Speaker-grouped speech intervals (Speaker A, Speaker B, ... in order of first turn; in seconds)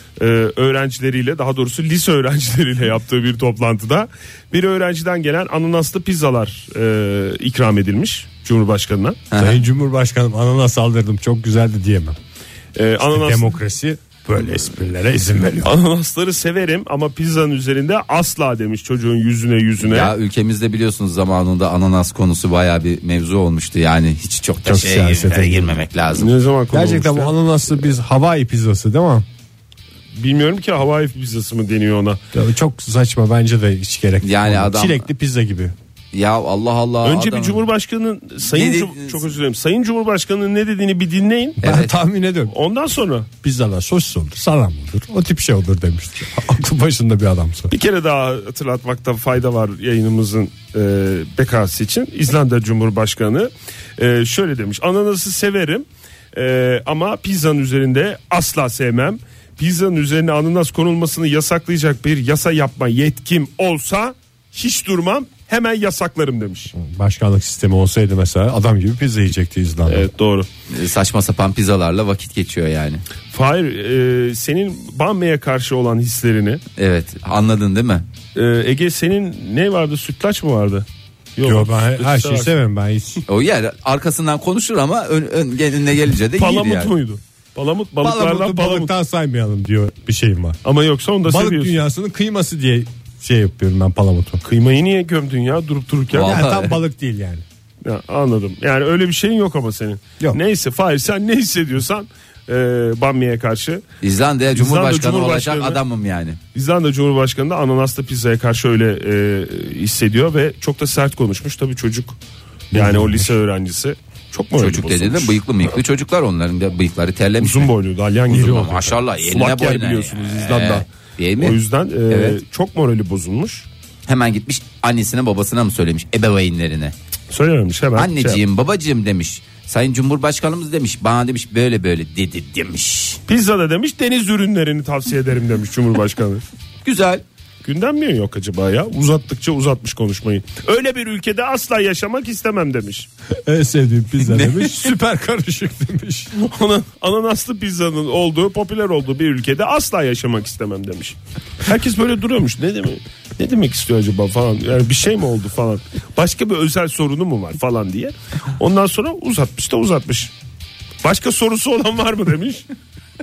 Speaker A: 0.2-9.2, 12.8-13.6, 15.6-20.1, 26.1-27.3, 30.1-32.2, 37.0-41.6, 42.5-43.3, 47.7-66.7, 69.9-70.5, 73.3-76.6, 78.3-82.5, 86.4-88.9, 90.6-91.7, 94.4-96.4, 97.8-103.8, 104.5-105.8, 106.5-112.2, 112.7-115.4, 117.4-120.8, 121.4-123.7, 127.3-128.4, 133.3-136.5, 137.6-143.1, 146.3-160.3, 161.0-162.7
Speaker B: 9.3-9.6, 19.8-26.3, 34.2-35.1, 36.1-37.6, 38.5-39.2, 41.6-41.9, 70.7-73.0, 76.8-78.0, 83.3-86.9, 96.1-96.8, 104.0-106.4, 114.6-117.7, 118.3-121.6, 122.1-122.4, 124.1-127.0, 128.0-133.2, 136.8-137.2, 144.2-144.9
Speaker C: 9.4-12.2, 13.1-15.8, 24.6-25.8, 26.7-29.2, 32.3-35.7, 41.6-42.5, 43.4-47.7, 66.7-70.1, 81.4-83.2, 88.0-90.6, 91.2-94.4, 96.2-97.4, 112.7-113.3, 143.4-146.3